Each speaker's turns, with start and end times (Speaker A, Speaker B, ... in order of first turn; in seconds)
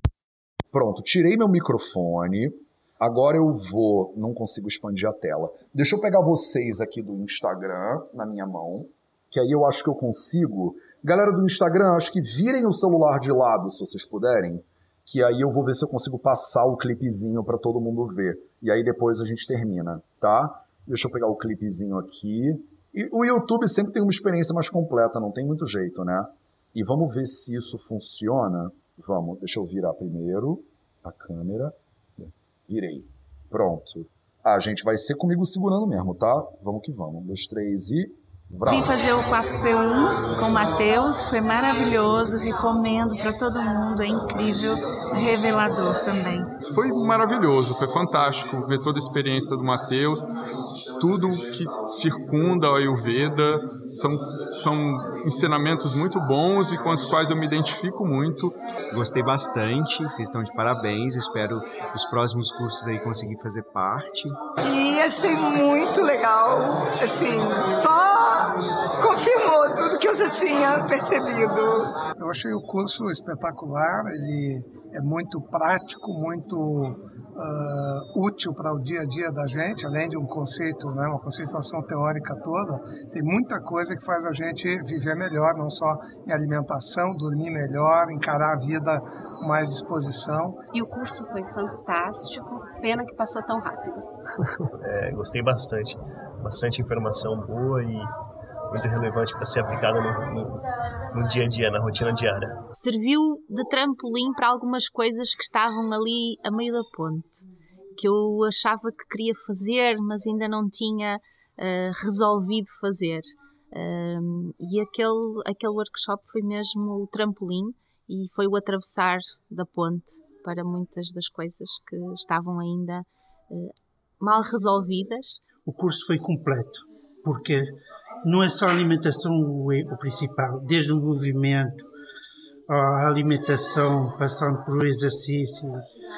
Speaker A: 0.7-38.9
Speaker B: 38.6-46.5
Speaker C: 46.6-50.2, 51.0-58.5
Speaker D: 58.9-64.4
Speaker E: 64.7-68.2, 69.0-71.9
Speaker F: 72.2-90.6
Speaker G: 90.7-94.1
Speaker H: 94.8-98.1, 98.7-100.6, 101.1-102.6
Speaker I: 102.8-107.4, 108.0-125.4
Speaker J: 125.7-131.9, 132.7-135.8